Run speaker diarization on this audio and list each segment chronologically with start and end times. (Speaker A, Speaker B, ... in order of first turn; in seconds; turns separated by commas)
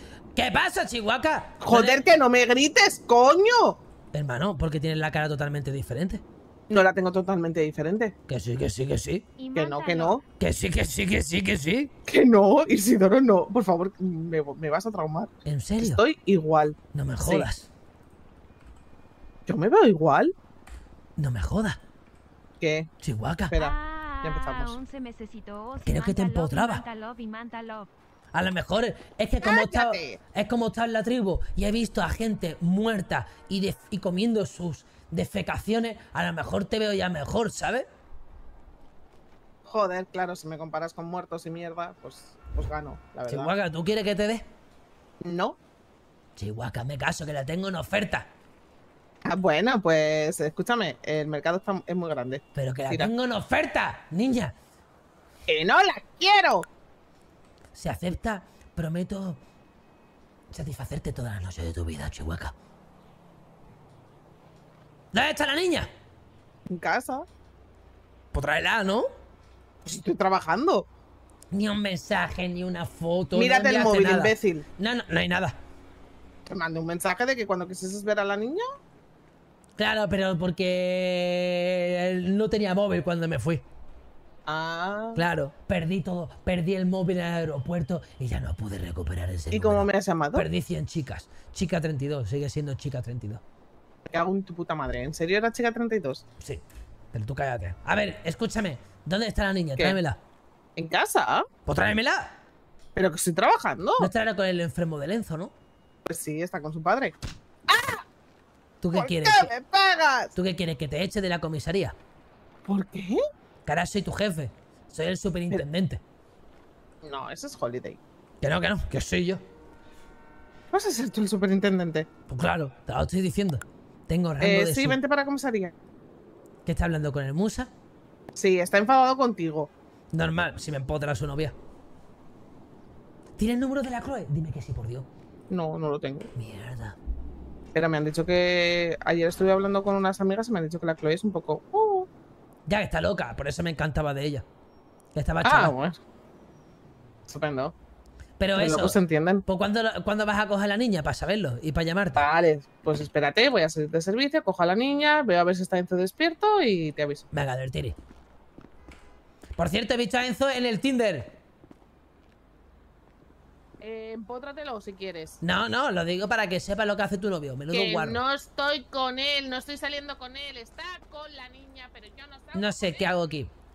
Speaker A: 0.3-2.0, Speaker B: 1.6-3.8, Speaker A: 4.1-6.2, Speaker B: 6.7-8.1, Speaker A: 8.3-9.3, Speaker C: 9.4-10.2, Speaker B: 9.5-10.2, Speaker A: 10.4-11.9, Speaker B: 12.1-17.5, Speaker A: 15.4-16.0, Speaker A: 16.9-17.7, Speaker B: 19.5-20.3, Speaker A: 21.2-21.8, Speaker B: 22.6-22.9, Speaker A: 23.0-23.5, Speaker B: 23.5-24.8, Speaker C: 23.6-27.9, Speaker A: 25.8-26.8, Speaker A: 28.3-37.9, Speaker B: 29.4-30.2, Speaker B: 39.6-43.5, Speaker A: 43.3-44.4, Speaker B: 45.2-45.6, Speaker A: 46.4-48.3, Speaker B: 49.2-53.1, Speaker A: 52.5-54.5, Speaker B: 55.5-56.7, Speaker A: 57.7-59.4, Speaker A: 60.5-62.5, Speaker A: 65.1-65.9, Speaker B: 66.7-67.3, Speaker A: 68.3-69.0, Speaker B: 69.8-70.9, Speaker A: 71.5-75.5, Speaker B: 73.3-74.6, Speaker B: 76.5-78.6, Speaker A: 79.8-83.6, Speaker B: 84.5-85.2, Speaker A: 85.1-93.4, Speaker B: 89.5-90.5, Speaker B: 94.1-96.2, Speaker A: 96.4-100.2, Speaker B: 100.8-101.5, Speaker A: 101.7-102.3, Speaker B: 102.9-104.1, Speaker A: 104.0-105.5, Speaker B: 106.1-107.2, Speaker B: 107.7-108.0, Speaker A: 108.8-109.5, Speaker B: 108.9-110.3, Speaker A: 110.3-111.9, Speaker B: 112.7-113.2, Speaker A: 113.7-116.0, Speaker B: 117.0-118.0, Speaker A: 118.4-119.4, Speaker B: 120.7-122.1, Speaker A: 122.3-125.0, Speaker B: 124.4-125.7, Speaker A: 126.7-127.7, Speaker B: 128.3-129.7, Speaker A: 130.1-131.6, Speaker A: 133.4-135.1, Speaker B: 135.5-136.3, Speaker A: 136.4-137.0, Speaker B: 137.7-142.1, Speaker A: 142.7-144.4, Speaker A: 145.1-145.7, Speaker B: 145.4-146.0, Speaker B: 147.3-147.7, Speaker A: 148.4-152.2, Speaker B: 148.6-149.4, Speaker B: 152.2-157.3, Speaker A: 157.3-158.0, Speaker A: 159.6-161.3, Speaker B: 163.8-165.4, Speaker A: 165.4-168.2, Speaker B: 167.7-173.3, Speaker A: 172.5-173.5